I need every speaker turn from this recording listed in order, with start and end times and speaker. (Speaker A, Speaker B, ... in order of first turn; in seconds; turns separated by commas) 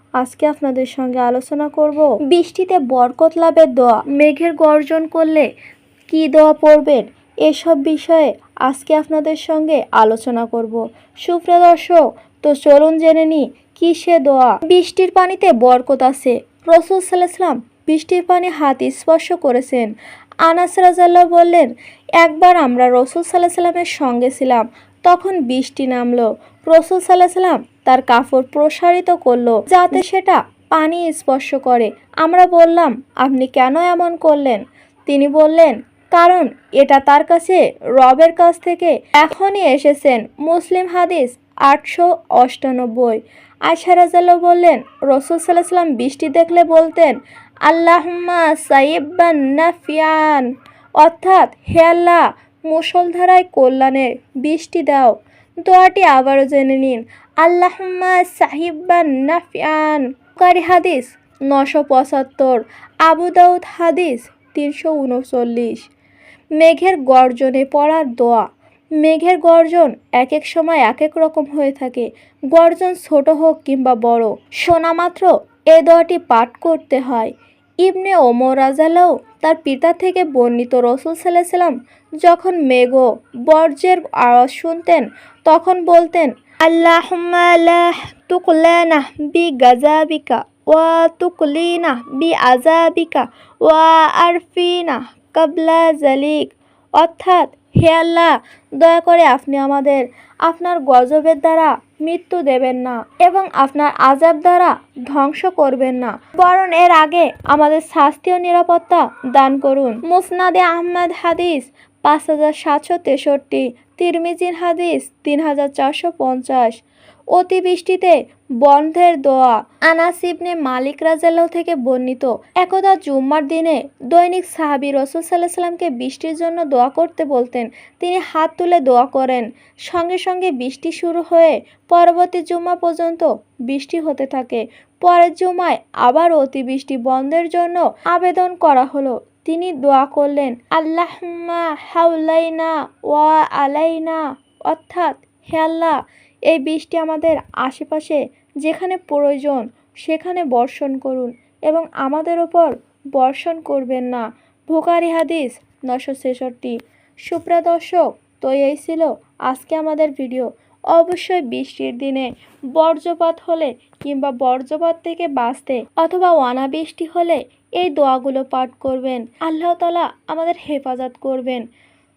Speaker A: 0.2-5.5, Speaker A: 6.1-19.9, Speaker A: 20.4-50.5, Speaker A: 51.0-65.9, Speaker A: 66.6-68.5, Speaker A: 69.0-116.8, Speaker A: 117.3-146.0, Speaker A: 146.5-171.6